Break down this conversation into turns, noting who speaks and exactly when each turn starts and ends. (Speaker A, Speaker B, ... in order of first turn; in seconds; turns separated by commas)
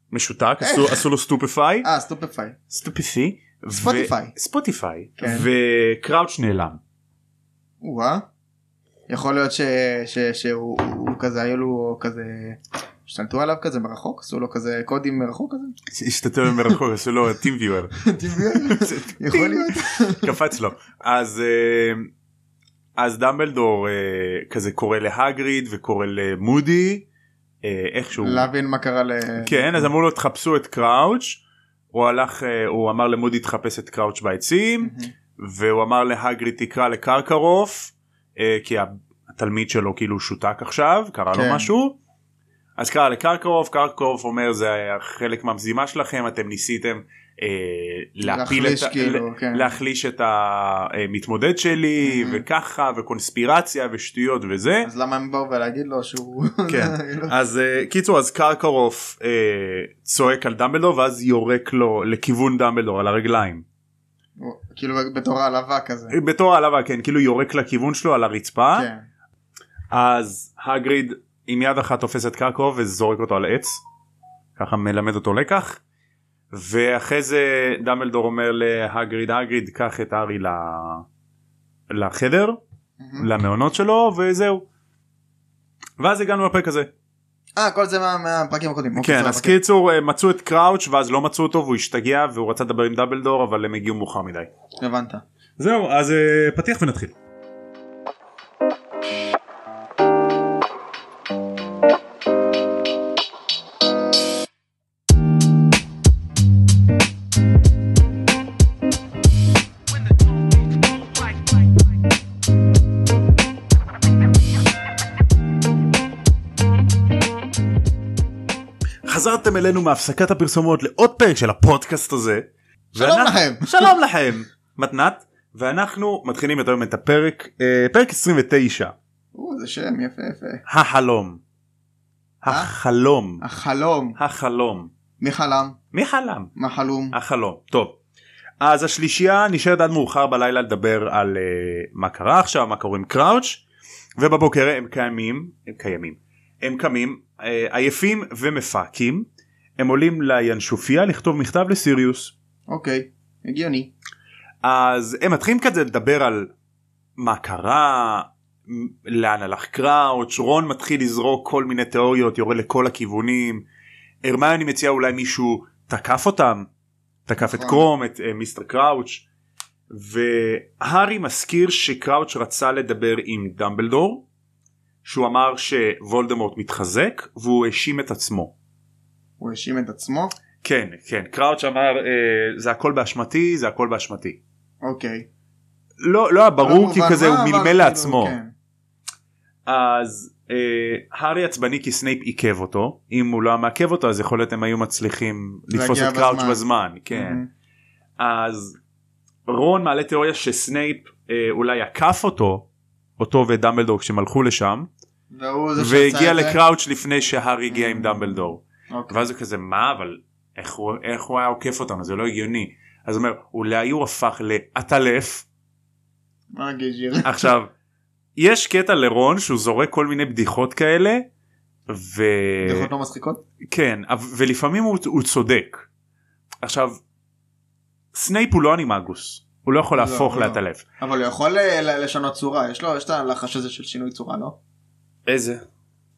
Speaker A: 0.1-1.9, Speaker B: 0.6-1.0, Speaker B: 1.8-2.5, Speaker A: 2.7-6.8, Speaker B: 3.8-4.3, Speaker B: 5.2-5.5, Speaker B: 7.8-8.3, Speaker B: 9.1-15.7, Speaker A: 15.9-22.1, Speaker B: 18.0-20.3, Speaker A: 23.0-27.1, Speaker A: 27.6-28.5, Speaker B: 28.2-29.9, Speaker A: 29.4-42.0, Speaker B: 34.8-35.1, Speaker B: 41.3-41.7, Speaker A: 42.8-54.9, Speaker B: 48.2-49.7, Speaker B: 52.0-52.4, Speaker B: 54.8-57.3, Speaker A: 56.7-63.6, Speaker B: 64.4-66.1, Speaker A: 66.1-68.9, Speaker B: 68.7-69.0, Speaker A: 69.9-73.8, Speaker A: 74.6-75.8, Speaker A: 76.5-81.0, Speaker A: 81.9-82.6, Speaker B: 83.0-83.3, Speaker A: 83.2-84.7, Speaker A: 86.0-86.9, Speaker B: 87.5-89.6, Speaker A: 89.0-94.5, Speaker B: 94.8-95.2, Speaker A: 95.6-97.1, Speaker A: 119.0-128.9, Speaker B: 122.9-123.9, Speaker B: 129.3-130.6, Speaker A: 130.7-131.4, Speaker A: 132.4-133.4, Speaker B: 133.4-134.2, Speaker A: 134.2-134.9, Speaker B: 135.2-135.8, Speaker A: 135.9-136.5, Speaker B: 136.6-137.1, Speaker A: 137.1-137.9, Speaker A: 138.6-143.6, Speaker A: 144.2-149.3, Speaker A: 149.8-152.3, Speaker B: 152.7-153.9, Speaker A: 154.6-156.5, Speaker A: 157.2-163.6, Speaker A: 164.2-166.7, Speaker A: 167.3-169.2, Speaker B: 167.4-167.8, Speaker A: 169.9-174.2, Speaker A: 175.0-178.5, Speaker B: 179.4-180.3, Speaker A: 180.6-184.4, Speaker B: 184.8-185.3, Speaker A: 186.0-188.3, Speaker B: 186.6-188.5, Speaker A: 189.7-197.4, Speaker B: 195.7-196.6, Speaker B: 197.1-197.5, Speaker A: 198.2-198.8, Speaker A: 199.5-202.7, Speaker A: 203.2-204.9, Speaker B: 205.3-206.6, Speaker A: 205.8-215.4, Speaker B: 207.7-209.2, Speaker B: 216.5-217.5, Speaker A: 217.2-217.7, Speaker A: 218.3-221.3, Speaker A: 221.9-222.9, Speaker B: 222.6-223.4, Speaker A: 223.7-225.8, Speaker A: 226.6-227.0, Speaker A: 228.1-230.8, Speaker B: 229.9-234.6, Speaker A: 235.3-235.6